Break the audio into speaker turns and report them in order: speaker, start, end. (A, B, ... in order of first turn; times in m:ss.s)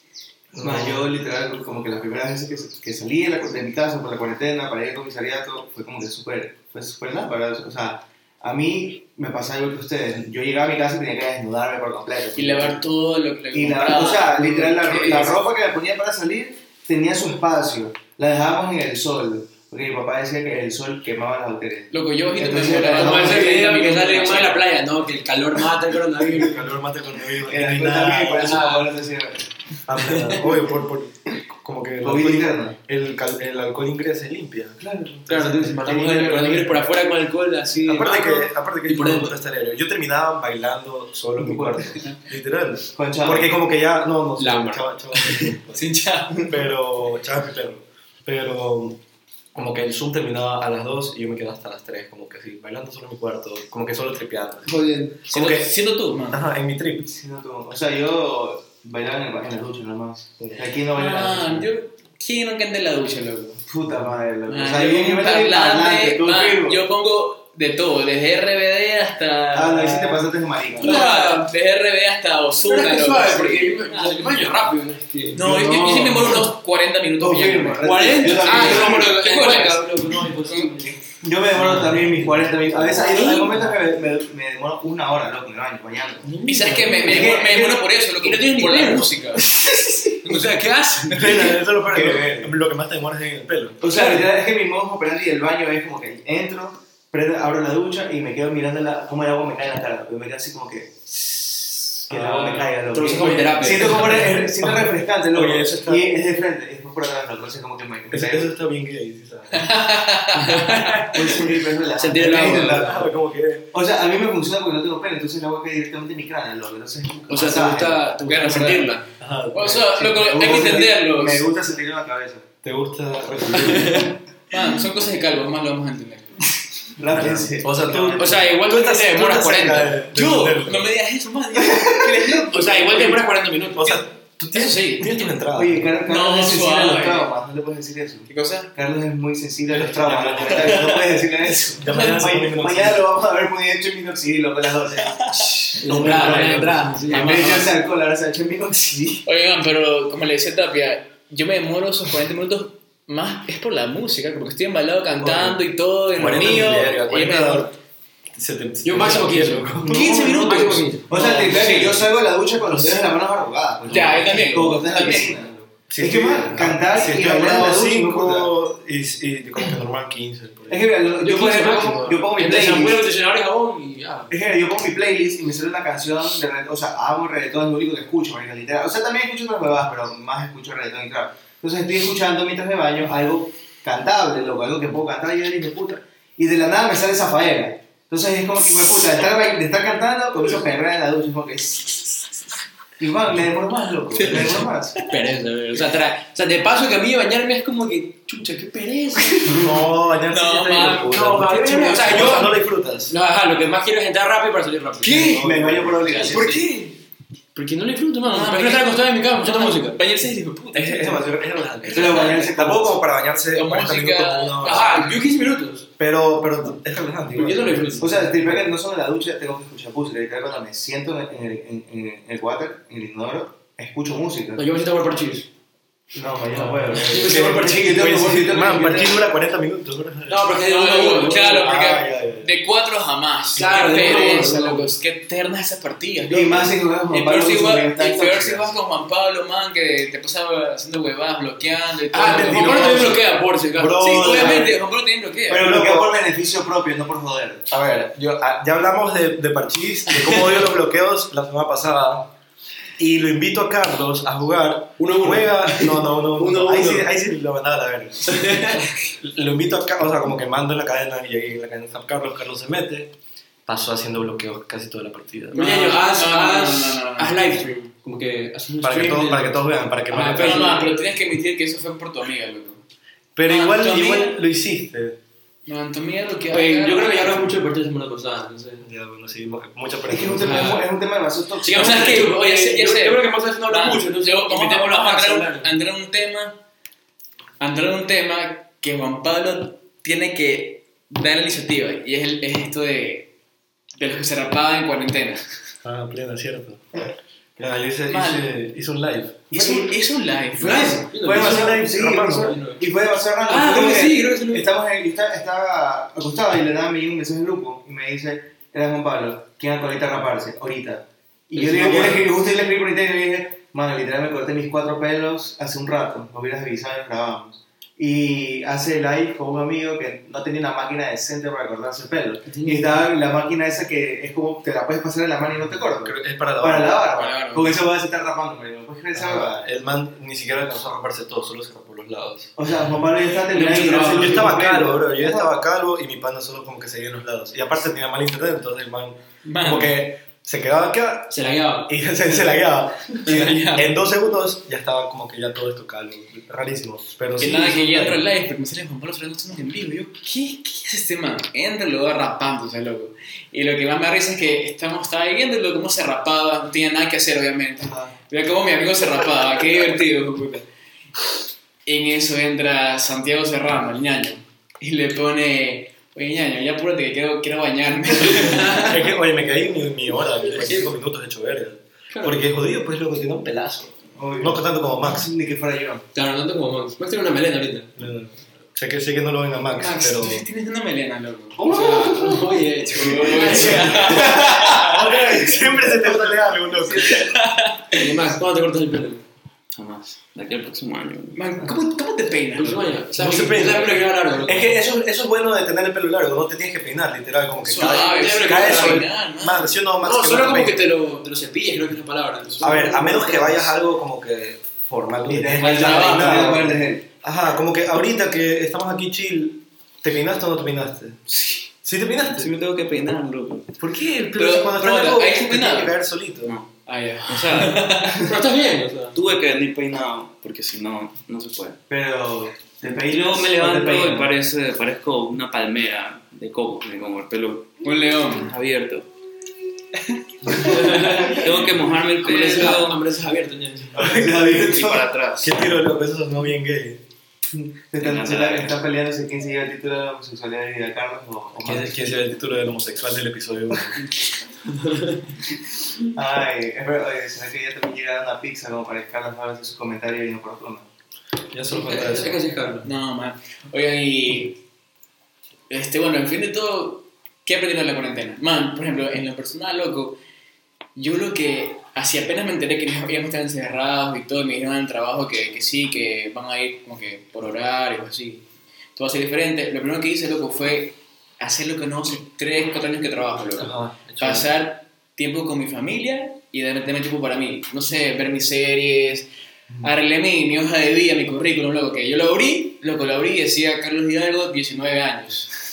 0:00.5-0:01.1 A
0:00.6-0:12.8 B
0:12.4-0:15.4 C
0:13.5-0:23.6 B
0:21.9-0:24.7 C
0:22.9-0:26.6 D
0:26.3-0:28.5 A
0:27.4-0:29.5 B
0:28.2-0:28.9 D
0:29.9-0:34.8 A
0:30.0-0:30.4 D
0:32.0-0:32.8 B
0:34.8-0:36.9 B
0:35.3-0:39.4 D
0:37.8-0:49.0 A
0:41.4-0:42.1 B
0:43.0-0:43.5 B
0:44.4-0:45.6 D
0:45.7-0:46.6 C
0:49.5-0:55.7 A
0:54.7-0:55.3 D
0:55.3-0:56.4 C
0:56.3-0:57.1 A
0:57.0-1:01.7 B
1:00.4-1:00.7 A
1:01.0-1:03.6 C
1:03.7-1:06.8 B
1:04.5-1:10.2 C
1:09.5-1:11.0 B
1:10.8-1:14.6 C
1:10.8-1:11.5 D
1:12.6-1:15.5 D
1:15.3-1:20.9 C
1:15.4-1:16.5 B
1:17.2-1:19.2 B
1:17.8-1:21.0 D
1:21.2-1:26.3 B
1:21.6-1:23.8 D
1:21.6-1:22.5 A
1:26.2-1:31.5 D
1:26.4-1:29.4 C
1:27.0-1:27.8 B
1:29.8-1:30.1 B
1:30.2-1:30.5 C
1:31.1-1:33.9 A
1:31.9-1:32.5 B
1:33.8-1:48.5 B
1:42.1-1:46.1 A
1:42.9-1:44.4 D
1:48.1-1:49.7 A
1:49.5-1:51.4 C
1:50.3-1:51.2 D
1:51.1-1:53.0 B
1:52.0-1:53.0 D
1:52.2-1:53.7 A
1:53.7-1:58.9 B
1:57.3-1:59.1 D
1:58.4-1:58.8 C
1:59.2-2:00.8 A
1:59.5-2:01.5 C
2:00.0-2:02.5 B
2:02.6-2:04.2 A
2:03.5-2:04.1 D
2:04.5-2:06.6 C
2:07.0-2:08.5 B
2:07.1-2:10.9 A
2:08.1-2:10.0 D
2:10.1-2:13.2 C
2:11.6-2:12.4 B
2:12.5-2:14.0 D
2:13.7-2:16.0 A
2:14.5-2:15.3 C
2:15.5-2:29.2 B
2:16.1-2:17.3 C
2:18.3-2:18.7 C
2:19.7-2:23.1 A
2:20.4-2:21.0 C
2:21.9-2:22.2 C
2:25.2-2:26.3 C
2:25.8-2:27.7 D
2:25.8-2:27.0 A
2:27.1-2:27.7 C
2:29.2-2:37.7 C
2:35.2-2:35.6 A
2:36.1-2:37.7 A
2:38.4-2:40.1 A
2:38.8-2:41.1 D
2:39.8-2:48.5 B
2:39.9-2:42.0 C
2:43.9-2:45.4 C
2:45.9-2:50.9 A
2:50.7-2:53.0 B
2:51.2-2:54.3 D
2:54.3-3:12.3 B
3:13.0-3:15.0 B
3:14.1-3:15.2 C
3:14.3-3:19.8 D
3:19.5-3:23.1 A
3:20.3-3:22.5 C
3:20.9-3:25.4 D
3:25.0-3:25.5 C
3:25.0-3:26.4 A
3:25.3-3:26.6 B
3:26.0-3:26.9 C
3:26.2-3:26.7 D
3:27.5-3:30.0 D
3:28.2-3:32.6 C
3:30.7-3:35.1 A
3:31.9-3:33.0 B
3:33.5-3:35.2 C
3:34.6-3:35.9 D
3:36.0-3:38.2 A
3:37.3-3:38.3 D
3:38.0-3:44.7 B
3:44.6-3:45.5 D
3:46.1-3:49.3 B
3:46.6-3:48.2 D
3:46.9-3:50.6 A
3:50.3-3:51.7 D
3:50.6-4:03.2 C
3:51.6-3:52.5 A
3:53.6-3:54.9 D
3:56.3-3:58.7 B
4:02.1-4:04.7 D
4:02.2-4:03.2 A
4:03.8-4:04.8 A
4:04.0-4:05.6 C
4:05.5-4:07.7 B
4:05.6-4:06.2 A
4:07.7-4:12.3 A
4:13.0-4:23.1 A
4:15.0-4:17.1 D
4:18.3-4:18.9 D
4:23.7-4:25.7 A
4:25.5-4:30.9 D
4:25.6-4:27.5 C
4:28.8-4:30.8 A
4:30.4-4:32.8 C
4:33.4-4:35.2 A
4:33.4-4:34.4 C
4:35.7-4:37.5 C
4:36.5-4:38.9 D
4:38.8-4:40.8 A
4:40.1-4:42.3 B
4:40.4-4:40.9 D
4:41.6-4:45.7 D
4:41.7-4:46.6 C
4:47.6-4:53.3 C
4:54.0-4:55.4 C
4:55.8-4:57.0 A
4:57.6-4:59.6 A
4:58.1-4:58.5 C
4:59.5-5:01.1 C
5:00.6-5:01.9 D
5:00.6-5:29.6 B
5:00.8-5:02.6 A
5:02.4-5:02.8 D
5:03.5-5:04.7 D
5:11.6-5:12.3 D
5:11.8-5:12.2 A
5:22.5-5:23.0 D
5:26.0-5:27.1 A
5:27.1-5:27.8 C
5:29.2-5:32.6 A
5:32.6-5:35.5 B
5:33.5-5:34.6 D
5:33.8-5:48.2 A
5:39.4-5:40.0 C
5:41.3-5:41.9 D
5:43.3-5:43.9 C
5:47.4-6:00.6 C
5:57.8-5:58.1 B
6:01.8-6:09.0 C
6:08.4-6:08.8 D
6:08.7-6:15.3 A
6:10.5-6:10.9 D
6:12.1-6:12.4 D
6:14.2-6:16.0 B
6:16.1-6:17.9 D
6:18.0-6:20.4 A
6:19.7-6:22.2 C
6:21.6-6:24.4 D
6:22.9-6:25.1 C
6:23.5-6:27.3 A
6:23.5-6:26.3 B
6:26.9-6:28.2 C
6:27.9-6:29.2 D
6:29.8-6:31.4 E
6:31.3-6:33.0 C
6:32.6-6:34.7 D
6:33.1-6:40.8 A
6:37.7-6:39.7 C
6:37.7-6:39.1 D
6:40.0-6:43.7 D
6:42.6-6:51.2 A
6:45.3-6:47.0 B
6:45.6-6:46.3 D
6:45.6-6:46.6 C
6:51.8-6:52.5 A
6:52.3-6:53.7 E
6:53.8-6:56.6 A
6:54.4-6:56.0 C
6:56.4-6:56.7 E
6:56.9-6:58.3 C
6:57.2-6:57.8 E
6:58.2-6:59.2 D
6:59.1-7:01.8 E
7:01.9-7:04.3 B
7:02.9-7:09.1 E
7:07.8-7:08.5 C
7:10.6-7:11.4 D
7:10.6-7:13.0 E
7:12.2-7:14.1 D
7:13.9-7:15.1 B
7:14.2-7:15.7 E
7:15.4-7:17.0 A
7:17.5-7:22.1 B
7:18.0-7:18.8 E
7:21.6-7:24.0 A
7:24.7-7:25.2 D
7:26.1-7:30.9 B
7:31.5-7:32.4 A
7:31.7-7:32.9 D
7:32.8-7:34.6 C
7:35.7-7:40.2 C
7:41.0-7:48.4 C
7:49.0-7:59.3 C
7:53.6-7:54.6 A
7:59.8-8:05.5 C